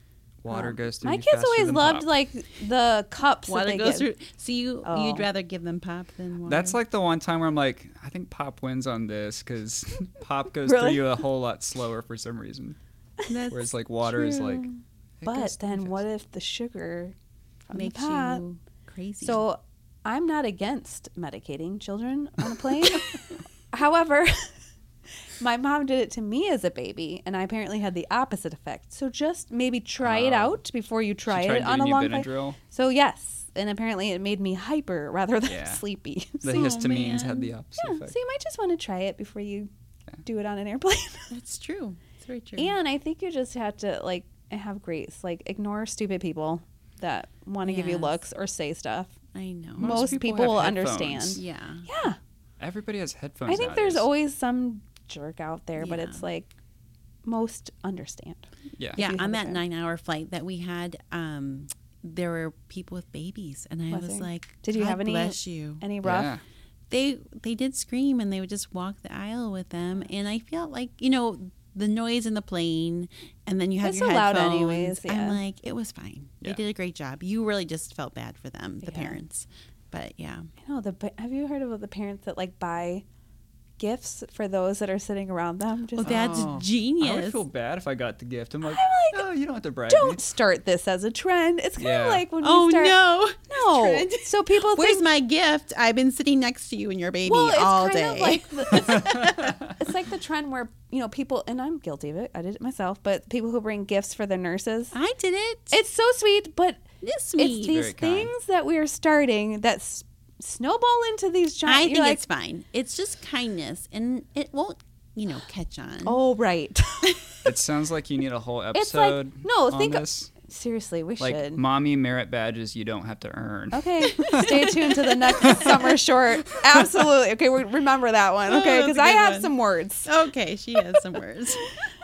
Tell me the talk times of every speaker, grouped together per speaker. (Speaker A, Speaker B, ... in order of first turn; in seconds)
Speaker A: 0.4-2.1, 6.4-12.8, 13.5-14.7, 15.2-16.0, 30.0-30.6, 31.3-32.6, 35.5-35.8, 36.4-38.1, 49.8-51.4, 52.6-54.1, 66.0-66.4, 86.0-90.2, 91.8-92.2, 107.7-108.3, 117.4-120.3, 121.2-125.8
Speaker B: 0.5-4.1, 4.8-5.3, 10.6-11.2, 15.2-17.1, 17.7-18.4, 19.2-24.5, 25.4-36.8, 37.8-39.7, 40.2-41.3, 42.6-49.1, 49.8-52.2, 53.5-56.5, 57.2-59.6, 63.9-66.3, 73.8-75.4, 78.8-79.2, 80.6-83.0, 83.8-86.3, 88.6-89.2, 89.9-95.0, 97.2-104.9, 105.7-106.8, 107.3-112.2, 116.0-117.3, 118.7-121.6, 123.7-130.1
Speaker C: 3.5-6.8, 13.3-14.8, 17.7-19.4, 36.5-37.5, 41.3-42.8, 47.6-48.2, 49.3-50.2, 51.4-51.9, 55.8-56.2, 59.0-65.8, 66.9-80.5, 85.9-87.4, 92.4-99.5, 104.9-105.8, 107.0-107.8, 111.6-116.2, 124.3-124.7, 128.5-129.5, 130.0-131.7